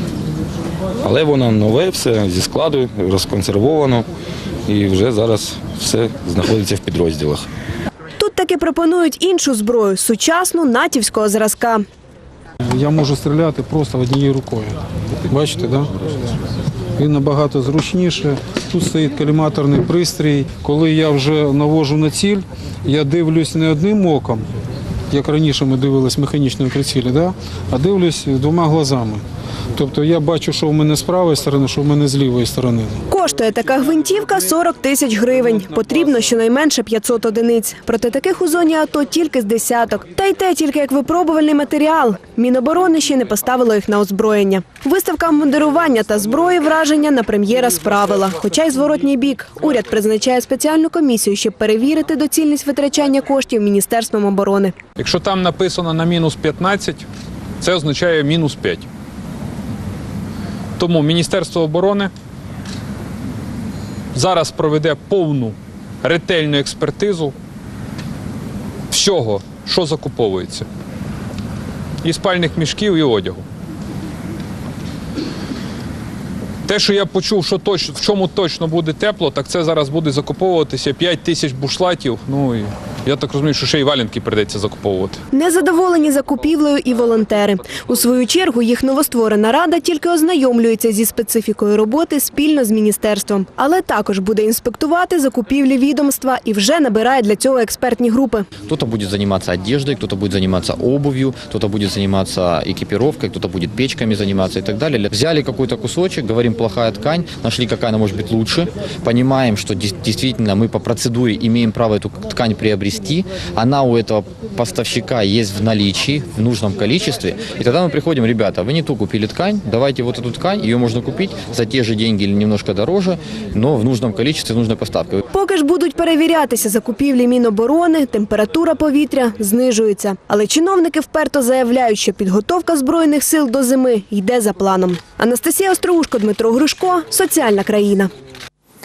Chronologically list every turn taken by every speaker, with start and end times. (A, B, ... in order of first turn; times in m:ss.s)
0:01.0-0:04.0 A
0:04.7-0:07.4 A
0:08.2-0:11.8 B
0:12.7-0:14.8 C
0:15.3-0:16.3 C
0:17.0-0:24.4 C
0:25.1-0:29.2 C
0:29.8-0:33.0 C
0:33.1-0:54.7 B
0:55.0-0:57.0 D
0:57.6-0:58.8 D
1:00.8-1:02.1 D
1:04.1-1:07.3 D
1:08.9-1:10.6 D
1:12.0-1:13.4 D
1:16.7-1:25.1 D
1:25.3-1:38.4 B
1:38.6-2:05.2 E
2:05.3-2:18.1 B